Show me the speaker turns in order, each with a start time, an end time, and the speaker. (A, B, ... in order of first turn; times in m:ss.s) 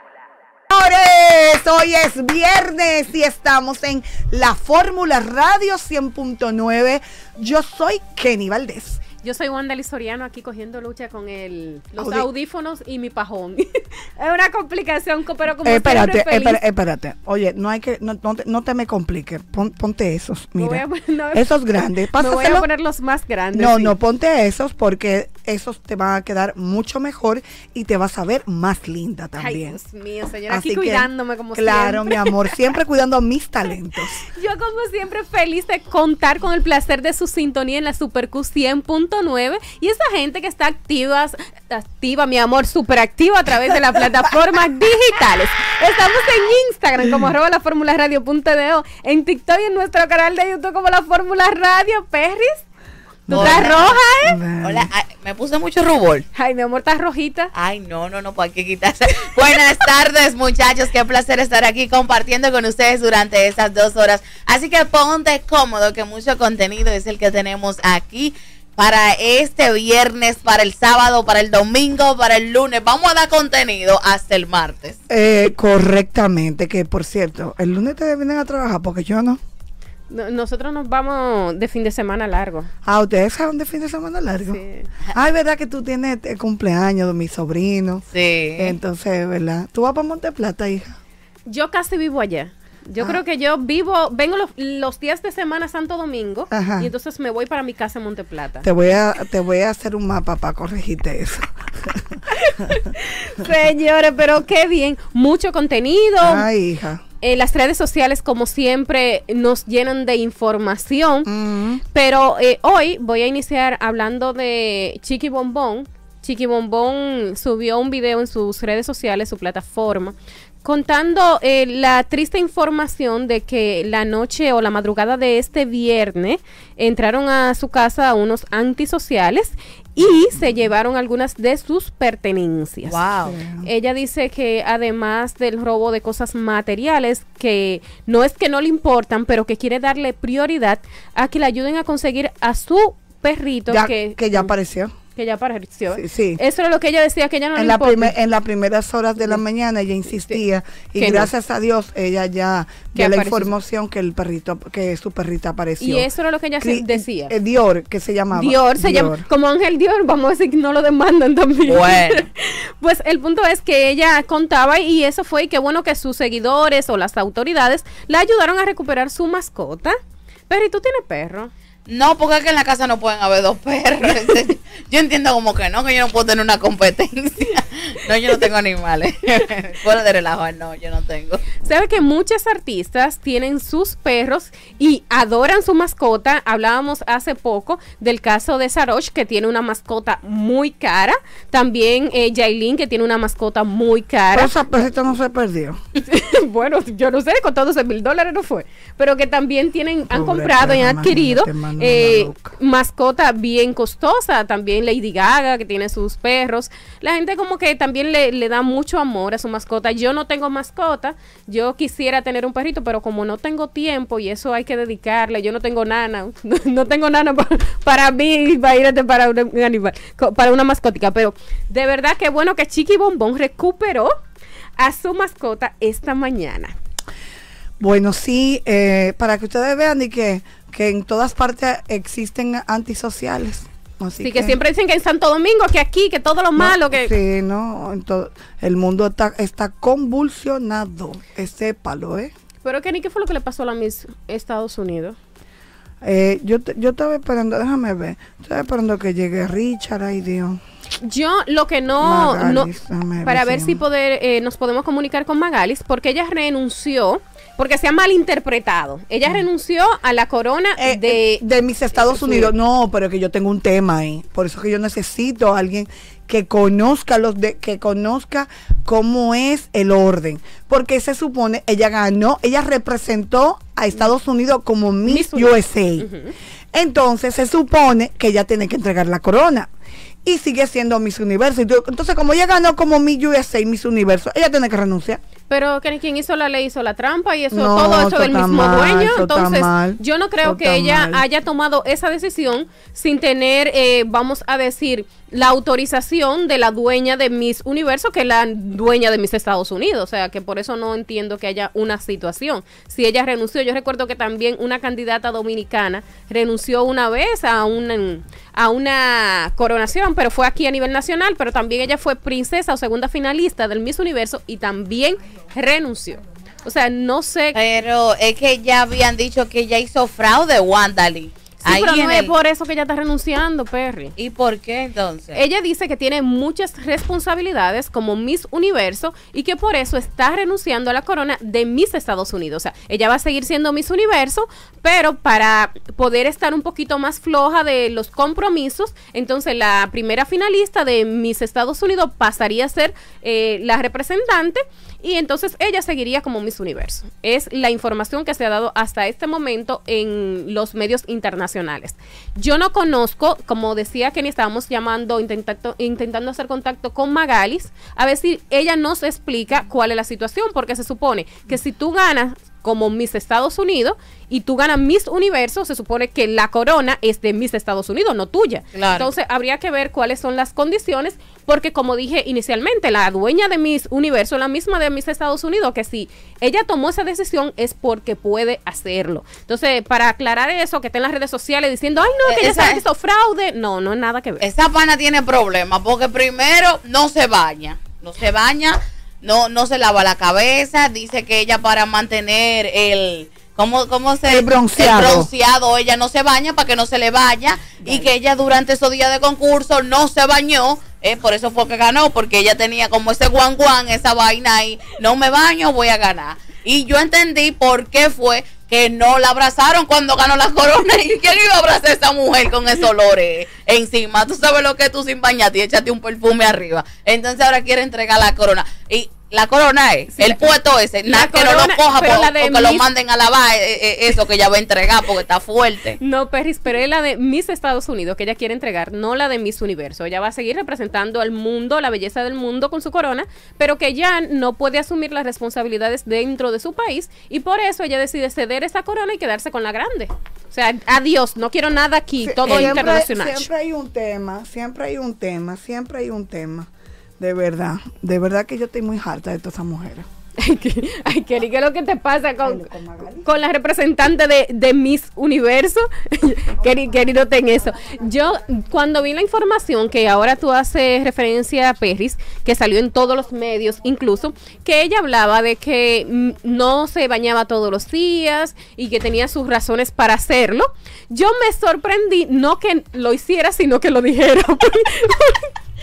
0:00.7-0:09.0 A
0:09.2-0:16.6 B
0:12.0-0:12.3 A
0:15.6-0:20.8 A
0:20.6-0:21.6 B
0:21.3-0:22.7 A
0:22.1-0:23.9 B
0:23.5-0:29.8 A
0:29.4-0:32.5 B
0:30.5-0:34.2 A
0:34.3-0:52.6 B
0:53.3-0:54.9 A
0:53.3-0:54.4 B
0:53.3-0:54.0 C
0:54.6-0:56.2 C
0:56.3-0:57.5 B
0:57.5-1:15.0 C
1:15.1-1:19.4 A
1:20.1-1:22.7 B
1:22.8-1:24.6 A
1:24.4-1:24.9 B
1:25.1-1:28.0 A
1:28.1-1:28.8 C
1:28.6-1:31.0 A
1:31.5-1:38.7 B
1:36.5-1:36.9 A
1:38.6-1:42.2 A
1:42.3-1:46.4 B
1:46.2-1:47.0 A
1:47.2-1:51.3 B
1:51.2-1:51.8 A
1:51.9-2:13.0 B
2:12.9-2:13.4 C
2:13.2-2:13.6 A
2:13.6-2:24.5 B
2:23.7-2:24.9 A
2:25.1-2:28.1 B
2:25.9-2:26.4 A
2:27.5-2:36.1 A
2:31.0-2:31.3 B
2:32.9-2:33.5 B
2:35.8-2:37.3 B
2:36.6-2:39.2 A
2:38.3-2:50.0 B
2:41.6-2:42.3 C
2:50.5-2:51.5 B
2:51.9-3:01.4 C
3:01.6-3:14.5 B
3:14.3-3:15.8 A
3:16.0-3:44.1 B
3:20.1-3:22.5 A
3:44.8-3:46.7 B
3:47.8-3:54.6 A
3:54.2-3:57.1 B
3:56.6-4:02.3 A
4:02.6-4:05.2 B
4:06.0-4:10.6 A
4:11.0-4:12.7 B
4:12.0-4:13.8 A
4:13.2-4:21.4 B
4:20.8-4:36.1 A
4:22.0-4:22.5 B
4:35.0-4:36.3 B
4:36.7-4:39.7 A
4:40.2-4:45.2 A
4:45.5-5:17.6 B
4:47.5-4:51.2 A
5:17.5-5:22.3 C
5:21.6-5:24.1 B
5:24.2-5:25.4 C
5:25.3-6:24.4 B
6:08.7-6:09.1 C
6:22.2-6:22.8 C
6:24.4-7:06.0 C
6:34.3-6:35.3 A
7:00.1-7:00.5 B
7:01.1-7:02.9 B
7:06.0-7:23.5 B
7:22.2-7:30.1 A
7:22.5-7:22.9 C
7:30.4-7:32.7 B
7:32.4-7:33.2 A
7:33.2-7:55.5 B